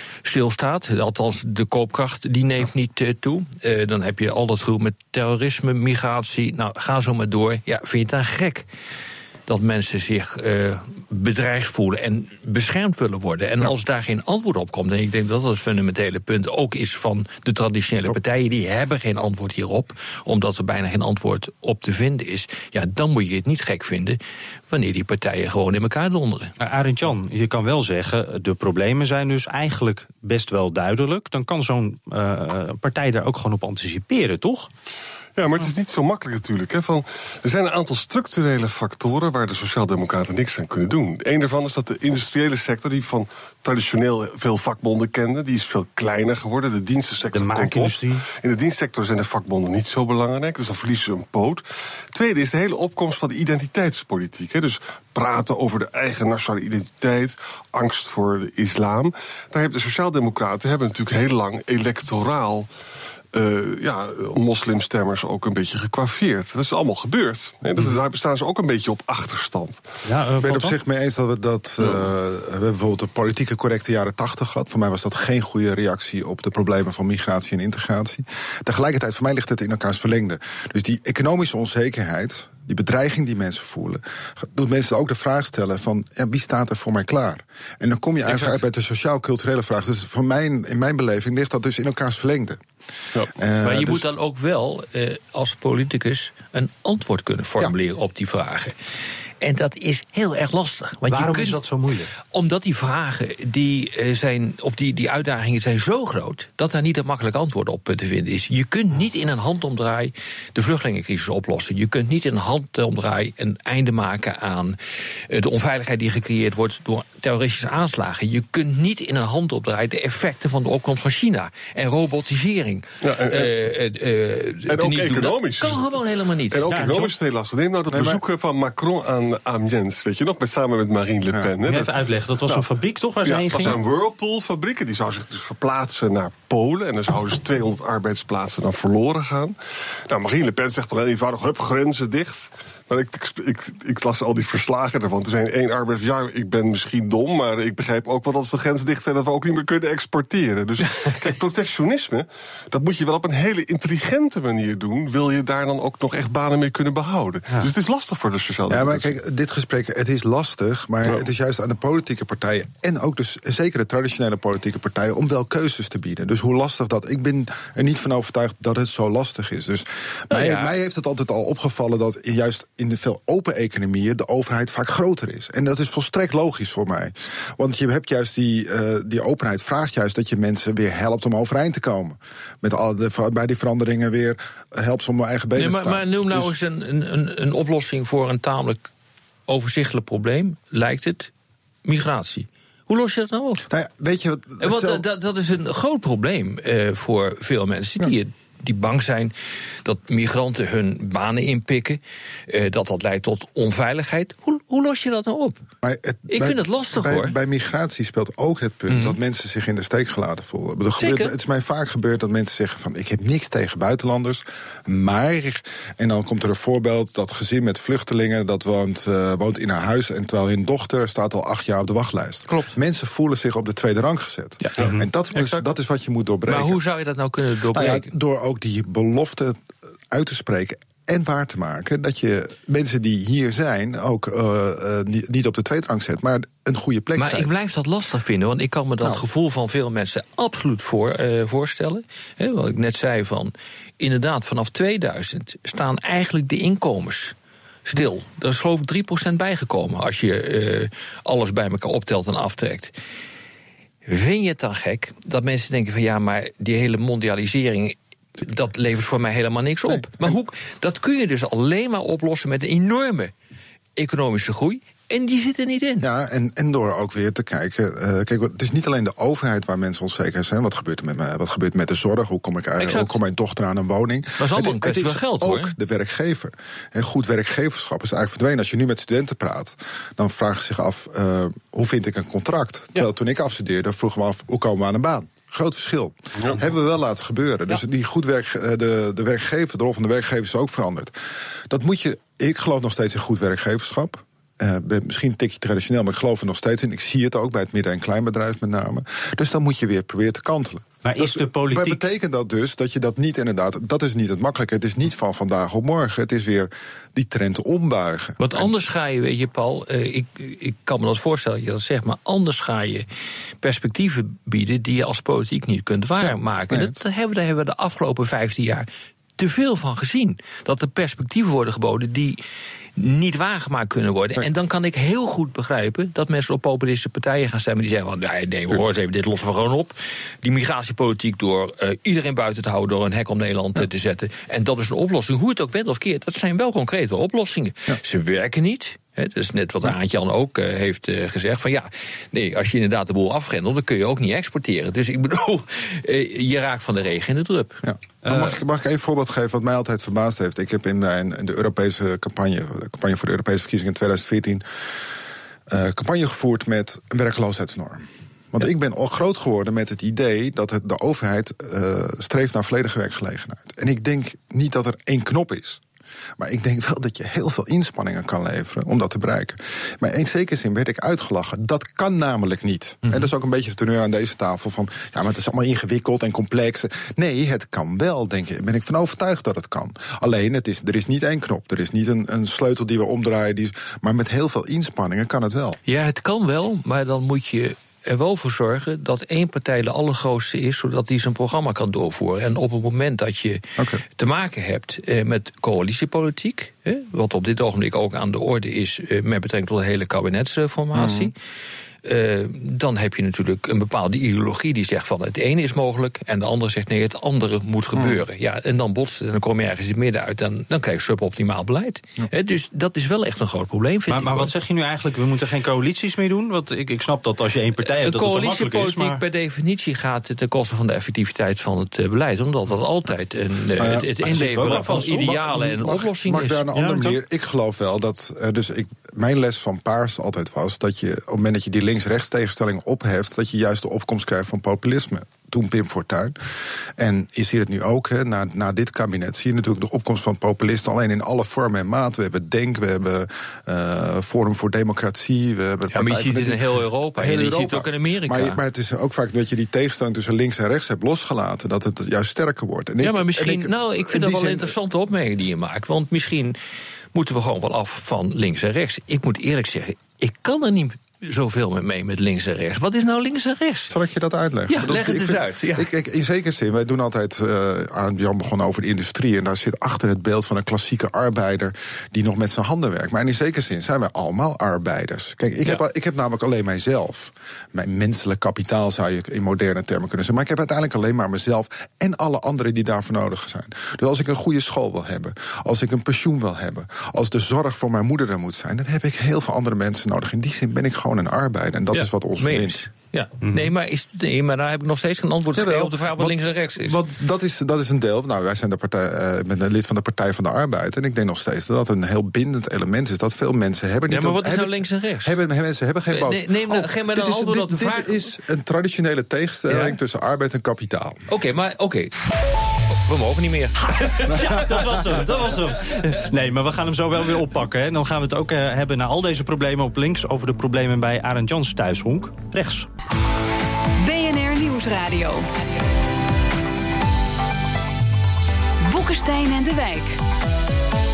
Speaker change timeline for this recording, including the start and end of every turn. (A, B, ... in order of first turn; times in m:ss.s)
0:00.2-0:08.7 A
0:09.5-0:24.2 A
0:24.7-0:26.5 A
0:26.6-0:34.7 B
0:35.4-1:02.7 C
0:47.3-0:48.2 B
1:03.3-1:09.8 C
1:10.1-1:10.8 B
1:10.4-1:32.6 D
1:28.3-1:28.6 A
1:33.3-1:34.0 D
1:33.6-1:38.8 A
1:39.4-1:41.6 A
1:41.1-1:42.1 B
1:42.3-1:54.8 A
1:55.3-2:06.7 A
2:03.0-2:03.6 C
2:04.7-2:12.7 C
2:06.7-2:07.1 B
2:07.9-2:08.2 D
2:11.7-2:13.8 B
2:13.2-2:19.6 C
2:20.1-2:39.1 C
2:38.7-3:06.5 D
2:50.3-2:50.7 A
3:05.6-3:08.9 A
3:09.5-3:11.3 A
3:11.8-3:13.6 A
3:13.7-3:15.0 D
3:14.6-3:25.6 A
3:25.8-3:46.8 D
3:26.3-3:27.4 A
3:28.9-3:29.2 A
3:31.0-3:31.3 A
3:42.5-3:42.7 A
3:45.3-3:45.7 A
3:46.5-3:48.1 A
3:47.7-3:49.6 D
3:50.1-3:57.6 D
3:57.2-4:07.4 A
4:07.9-4:12.9 A
4:14.1-4:23.3 A
4:19.9-4:20.4 D
4:24.0-4:26.0 A
4:26.0-4:51.1 D
4:32.8-4:33.2 A
4:34.4-4:35.7 A
4:46.4-4:46.6 C
4:51.7-5:08.7 D
5:01.0-5:02.0 B
5:08.4-5:13.0 A
5:13.6-5:22.4 A
5:16.2-5:17.0 D
5:23.0-5:48.4 A
5:47.8-5:54.6 D
5:55.7-6:05.8 D
6:06.4-6:25.8 D
6:25.9-6:41.3 A
6:40.9-6:41.3 D
6:42.0-6:54.6 A
6:54.1-6:59.2 B
6:57.8-7:06.6 A
7:03.8-7:16.4 D
7:04.2-7:05.3 B
7:06.7-7:07.2 B
7:17.0-7:26.6 D
7:25.9-7:28.6 A
7:27.2-7:34.7 D
7:33.0-7:36.6 A
7:37.1-7:43.9 A
7:43.9-8:12.8 D
7:44.7-7:45.9 A
8:11.9-8:17.0 A
8:15.6-8:31.2 D
8:24.1-8:25.3 A
8:26.1-8:28.3 A
8:31.3-8:32.1 A
8:32.9-8:35.0 A
8:34.3-8:42.9 B
8:44.0-8:45.5 E
8:48.8-8:50.2 E